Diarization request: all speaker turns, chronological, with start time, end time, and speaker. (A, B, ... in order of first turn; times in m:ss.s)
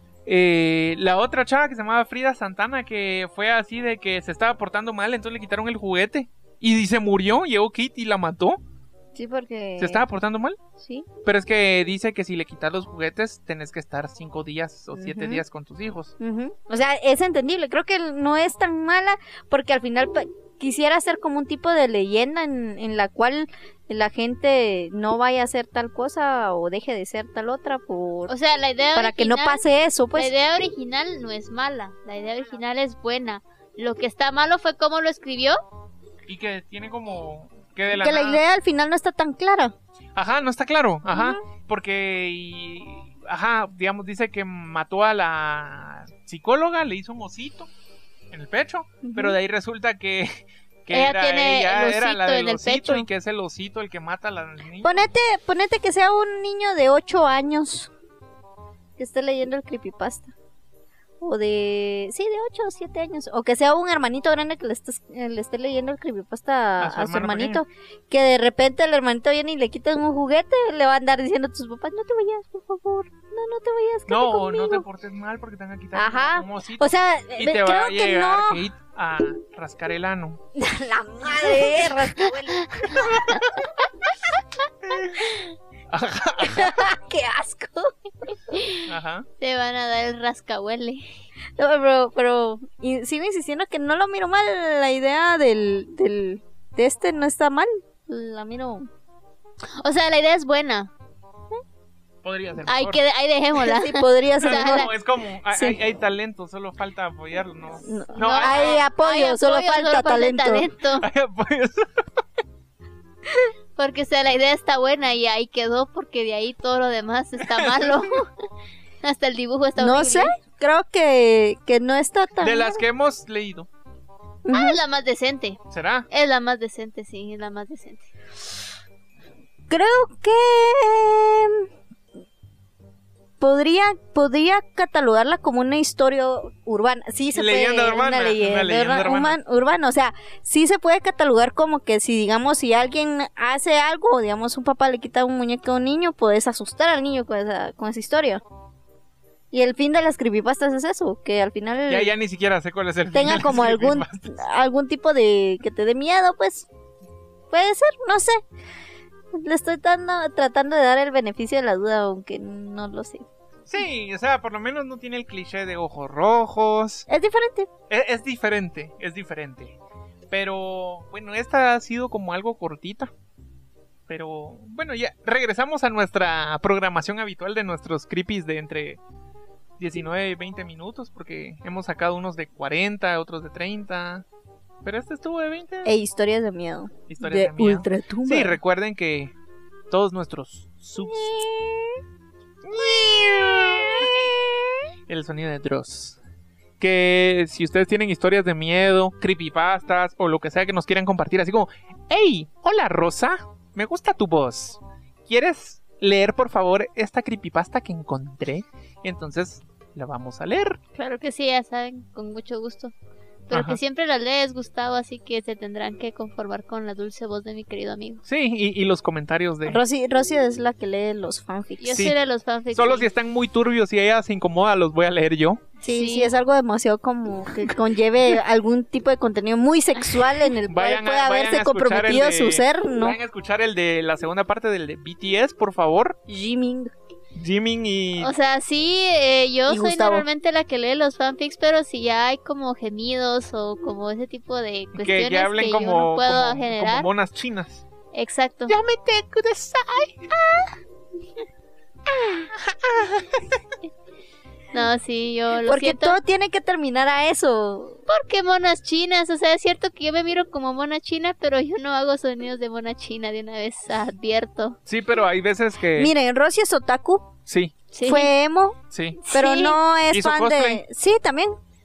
0:00.2-0:08.6 A
0:09.1-0:10.0 B
0:09.8-0:10.6 A
0:10.8-0:11.1 B
0:11.2-0:16.1 A
0:14.9-0:15.4 B
0:16.2-0:28.3 B
0:28.3-0:29.6 C
0:28.9-0:30.3 B
0:30.1-0:35.6 C
0:36.3-0:38.4 A
0:37.9-0:39.7 B
0:40.2-0:47.7 A
0:41.1-0:41.4 B
0:48.3-0:55.0 A
0:49.0-0:49.4 B
0:50.9-0:53.1 C
0:54.8-0:57.9 B
0:59.0-1:00.3 B
1:01.2-1:14.8 B
1:06.8-1:07.6 A
1:14.1-1:20.4 A
1:15.9-1:18.6 B
1:20.5-1:23.4 B
1:22.6-1:23.4 C
1:23.0-1:23.3 A
1:24.9-1:25.2 A
1:25.9-1:26.8 A
1:26.4-1:27.9 B
1:28.5-1:28.8 C
1:28.8-1:29.3 A
1:29.4-1:31.0 C
1:31.6-1:38.9 B
1:39.8-1:40.9 C
1:42.2-1:43.0 A
1:42.6-1:44.9 C
1:43.6-1:44.9 B
1:44.4-1:48.8 A
1:45.5-1:45.8 B
1:47.8-1:50.7 B
1:48.2-1:51.1 C
1:51.0-1:52.0 A
1:53.8-1:58.3 C
1:57.4-1:58.1 A
1:59.0-2:00.3 C
1:59.8-2:02.8 B
2:02.4-2:03.7 A
2:04.4-2:04.8 B
2:04.5-2:05.6 C
2:05.7-2:06.1 A
2:06.1-2:08.1 C
2:09.7-2:11.7 B
2:13.4-2:28.4 B
2:17.3-2:19.4 A
2:29.5-2:32.1 B
2:31.9-2:34.3 A
2:33.1-2:36.7 B
2:37.5-2:38.4 B
2:39.3-2:43.2 B
2:43.7-2:47.1 A
2:47.1-2:47.7 B
2:47.9-2:49.8 A
2:50.3-2:53.1 A
2:54.1-2:59.0 A
2:59.8-3:04.2 A
3:04.8-3:05.9 A
3:05.8-3:08.6 B
3:07.1-3:09.3 A
3:09.9-3:11.5 A
3:11.1-3:11.9 B
3:12.6-3:14.3 A
3:13.6-3:14.6 B
3:15.1-3:16.2 A
3:16.8-3:30.8 A
3:30.9-3:32.9 C
3:33.5-3:38.2 C
3:33.5-3:33.8 A
3:38.2-3:39.8 A
3:39.6-3:41.9 B
3:41.8-3:43.1 C
3:42.7-3:45.6 A
3:45.8-3:53.2 B
3:45.8-3:46.3 C
3:50.7-3:56.2 A
3:56.3-3:56.9 B
3:57.3-3:58.3 A
3:58.2-4:07.1 C
3:59.7-4:00.2 B
4:04.9-4:07.8 A
4:08.1-4:08.8 C
4:08.7-4:10.7 A
4:12.1-4:12.5 B
4:12.6-4:13.6 A
4:14.7-4:16.2 C
4:15.6-4:18.0 B
4:18.1-4:24.8 C
4:24.9-4:26.1 A
4:26.0-4:27.3 B
4:27.5-4:27.7 A
4:27.9-4:28.3 C
4:28.0-4:31.6 B
4:28.9-4:29.2 A
4:29.2-4:29.8 C
4:30.1-4:30.8 A